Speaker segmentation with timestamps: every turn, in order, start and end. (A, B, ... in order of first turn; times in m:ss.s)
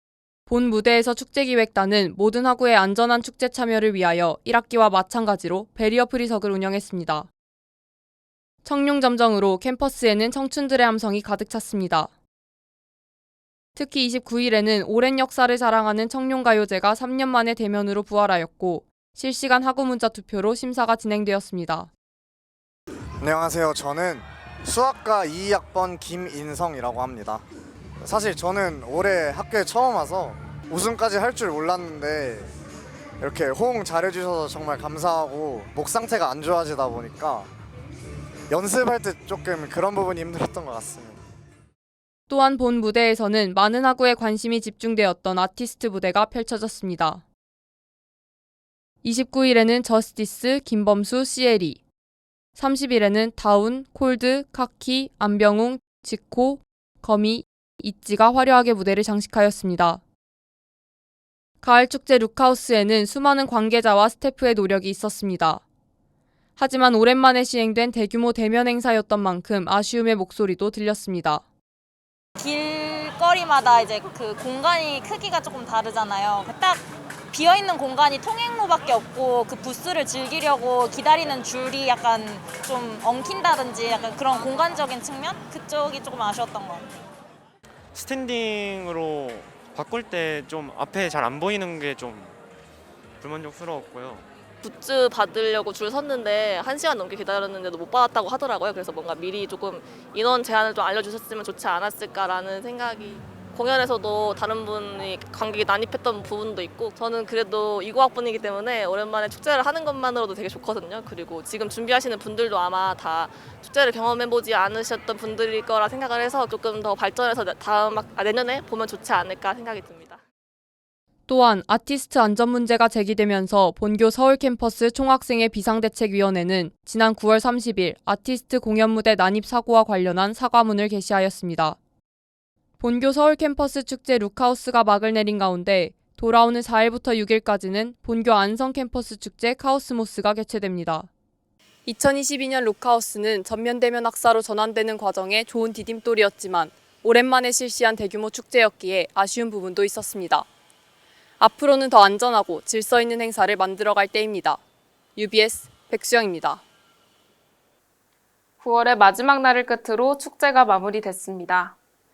0:00.5-0:07.3 A
0:08.6-0:12.1 A
0:13.7-0:21.9 A
0:23.2-0:27.4 B
0:28.0-0:32.5 B
0:33.2-0:37.5 B
0:38.5-0:41.2 B
0:42.3-0:47.2 A
0:49.0-0:51.8 A
0:52.5-1:00.0 A
1:01.6-1:05.6 A
1:06.6-1:11.4 A
1:12.4-1:26.9 C
1:27.9-1:32.4 D
1:33.2-1:34.3 D
1:34.6-2:00.2 E
2:01.3-2:11.8 A
2:12.8-2:21.1 A
2:21.8-2:30.5 A
2:31.4-2:34.6 A
2:35.2-2:36.6 A
2:38.6-2:41.8 F